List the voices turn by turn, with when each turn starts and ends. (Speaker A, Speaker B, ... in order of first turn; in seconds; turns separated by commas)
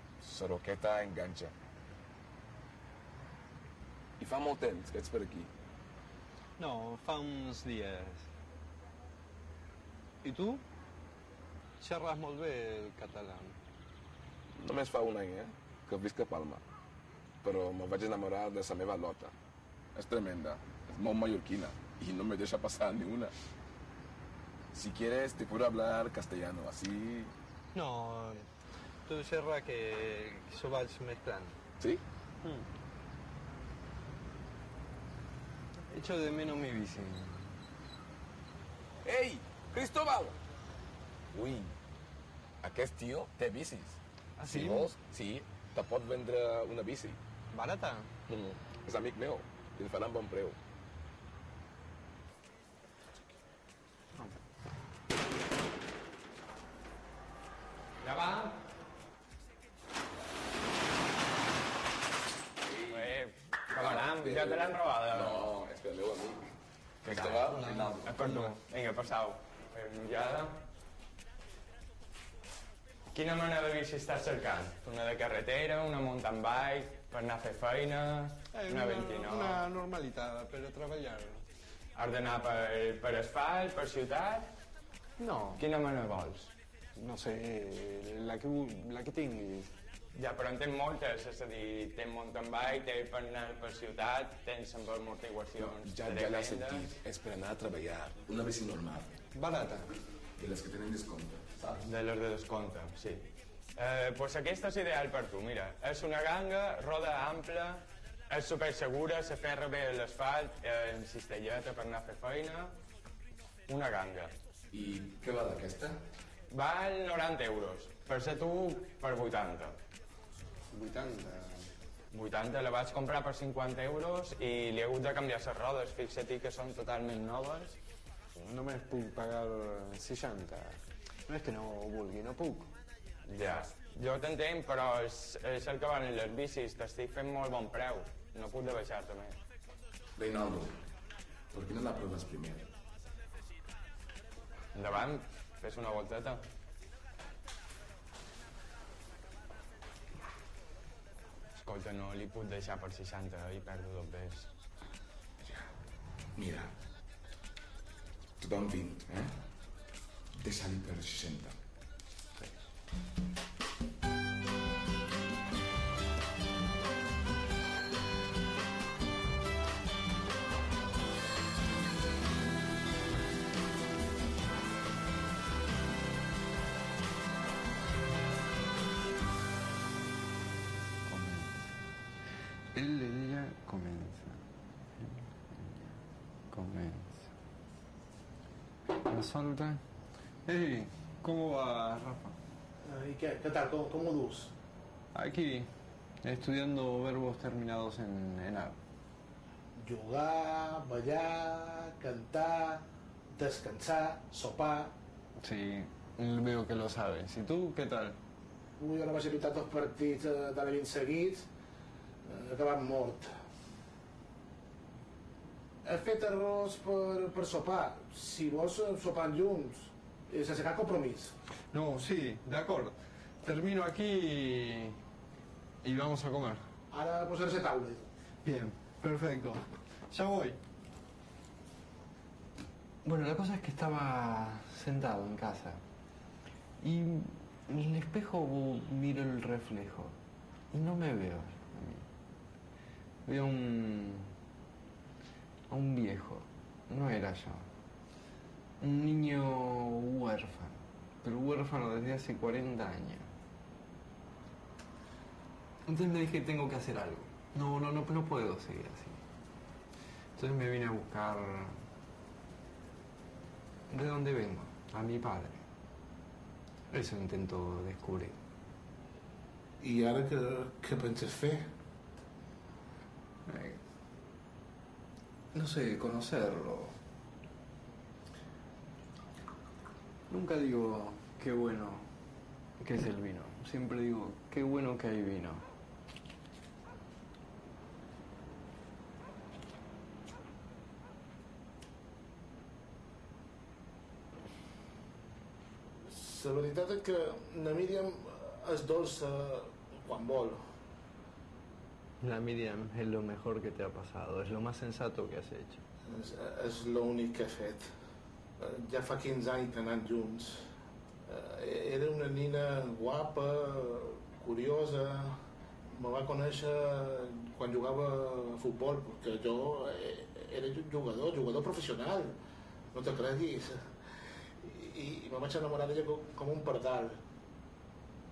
Speaker A: 0.2-1.5, Speaker A: 4.2-5.5, Speaker B: 6.6-8.3, Speaker B: 10.2-10.6, Speaker B: 11.8-13.6, Speaker A: 14.6-16.6, Speaker A: 17.4-19.3, Speaker A: 20.0-23.3, Speaker A: 24.7-27.3, Speaker B: 27.7-28.5, Speaker B: 29.1-31.6, Speaker B: 35.9-37.5, Speaker A: 39.0-40.4, Speaker A: 41.3-41.7, Speaker A: 42.6-47.2, Speaker B: 44.4-44.9, Speaker B: 47.5-48.1, Speaker A: 48.3-50.6, Speaker C: 58.0-58.6, Speaker A: 62.6-63.2, Speaker C: 62.9-65.5, Speaker A: 63.7-66.5, Speaker A: 67.0-68.6, Speaker C: 67.1-70.6, Speaker C: 73.1-79.6, Speaker B: 78.5-81.4, Speaker C: 82.0-84.5, Speaker B: 85.2-85.6, Speaker C: 85.5-86.5, Speaker B: 87.0-89.7, Speaker C: 90.2-96.9, Speaker A: 95.6-99.1, Speaker B: 99.3-99.9, Speaker A: 100.4-101.8, Speaker C: 101.8-112.8, Speaker C: 113.7-114.3, Speaker A: 114.7-116.0, Speaker C: 116.5-119.8, Speaker B: 120.7-121.6, Speaker C: 122.1-127.8, Speaker B: 128.4-132.7, Speaker C: 133.3-139.4, Speaker A: 140.2-140.8, Speaker A: 141.5-142.7, Speaker C: 144.7-146.4, Speaker C: 151.6-154.5, Speaker A: 156.4-156.7, Speaker A: 158.4-159.4, Speaker A: 160.4-161.6, Speaker B: 181.1-181.8, Speaker B: 182.7-184.4, Speaker B: 185.0-187.3, Speaker B: 188.9-189.8, Speaker B: 190.5-192.4, Speaker D: 192.8-194.5, Speaker B: 195.1-195.7, Speaker B: 196.2-198.8, Speaker D: 199.8-204.9, Speaker B: 205.4-208.2, Speaker D: 208.8-211.5, Speaker D: 212.2-213.4, Speaker D: 215.8-221.4, Speaker B: 221.7-225.0, Speaker B: 225.8-226.7, Speaker D: 226.9-228.1, Speaker B: 228.4-230.6, Speaker B: 233.0-235.8, Speaker B: 236.8-240.2, Speaker B: 240.7-242.1, Speaker B: 243.3-244.3, Speaker B: 245.7-247.7, Speaker B: 248.8-253.3, Speaker B: 255.9-259.2, Speaker B: 260.4-261.8, Speaker B: 263.9-265.6, Speaker B: 266.9-268.4, Speaker D: 269.8-271.7, Speaker B: 273.5-273.8, Speaker B: 275.5-277.0, Speaker B: 280.3-282.1, Speaker B: 282.8-285.7, Speaker D: 296.0-300.7, Speaker B: 302.2-305.8, Speaker D: 306.1-307.9, Speaker D: 308.6-310.7, Speaker D: 311.3-322.4, Speaker D: 322.9-324.0, Speaker D: 324.6-327.2